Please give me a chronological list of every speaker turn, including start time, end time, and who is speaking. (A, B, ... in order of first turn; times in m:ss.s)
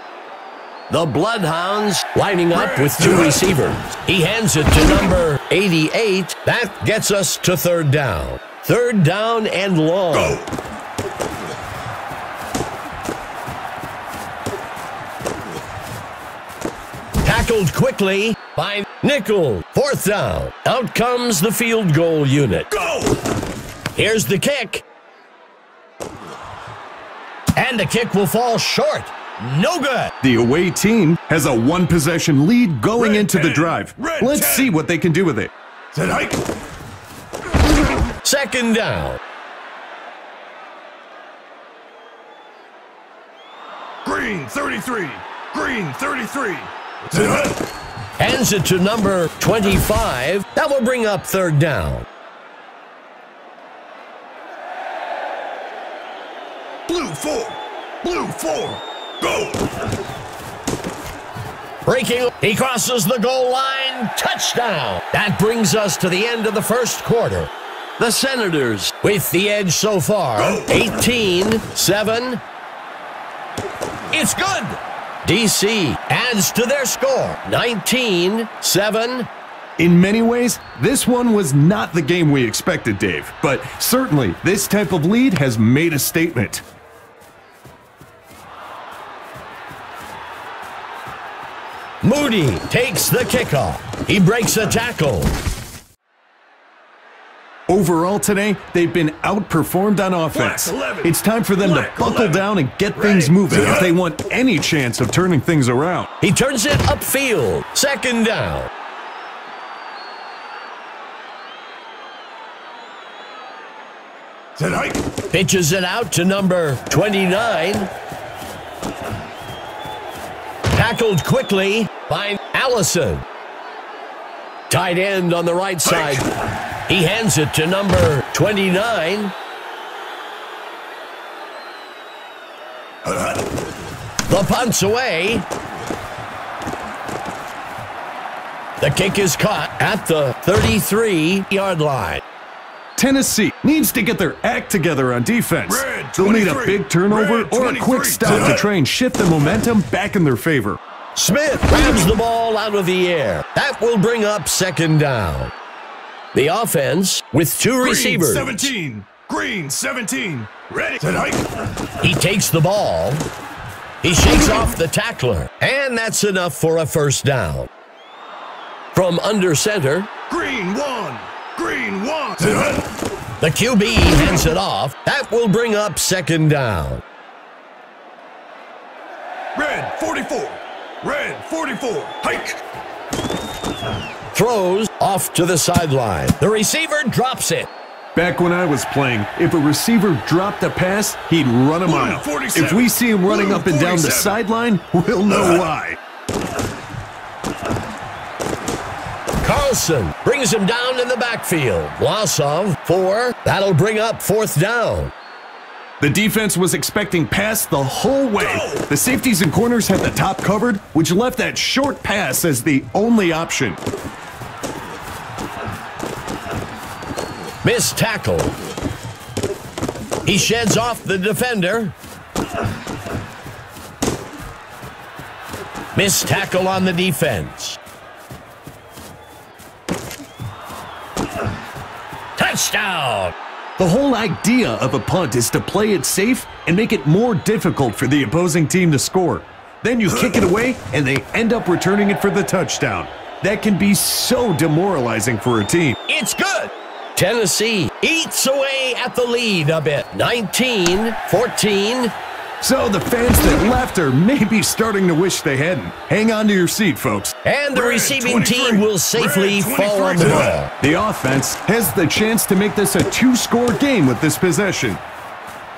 0:00.9-0:10.4 A
0:02.5-0:03.4 B
0:10.1-0:10.4 B
0:17.2-0:22.7 A
0:22.8-0:23.1 B
0:23.9-0:24.8 A
0:27.6-0:30.1 A
0:30.2-0:35.5 C
0:33.0-0:34.7 B
0:35.9-0:36.4 B
0:38.2-0:39.2 A
0:44.0-0:47.6 B
0:48.2-0:52.0 A
0:56.9-0:59.8 B
1:01.8-1:12.4 A
1:10.4-1:10.8 B
1:14.1-1:19.3 A
1:19.8-1:26.6 C
1:32.0-1:35.3 A
1:37.7-1:46.1 C
1:40.3-1:43.9 B
1:46.2-1:48.7 A
1:54.6-1:55.0 B
1:55.3-1:57.9 A
2:00.7-2:03.2 A
2:04.7-2:06.3 A
2:05.9-2:06.2 B
2:06.8-2:09.3 A
2:14.3-2:15.4 A
2:18.8-2:22.2 A
2:23.0-2:30.8 C
2:25.6-2:28.7 B
2:31.2-2:35.5 A
2:36.3-2:38.7 A
2:37.8-2:41.7 B
2:42.0-2:43.2 A
2:44.0-2:47.7 A
2:48.9-2:50.1 A
2:50.3-2:52.9 B
2:53.4-2:57.0 A
2:59.5-3:02.6 B
3:04.3-3:07.7 A
3:08.1-3:16.0 C
3:11.8-3:14.4 B
3:15.3-3:15.7 B
3:19.4-3:25.1 A
3:26.0-3:33.8 C
3:28.4-3:28.8 B
3:37.6-3:38.5 A
3:40.2-3:41.9 A
3:45.9-3:47.8 A
3:52.4-3:53.3 A
3:53.8-4:06.0 C
4:00.1-4:00.4 B
4:06.1-4:12.1 A
4:12.6-4:17.3 C
4:17.4-4:20.7 A
4:17.7-4:20.6 B
4:20.7-4:25.0 C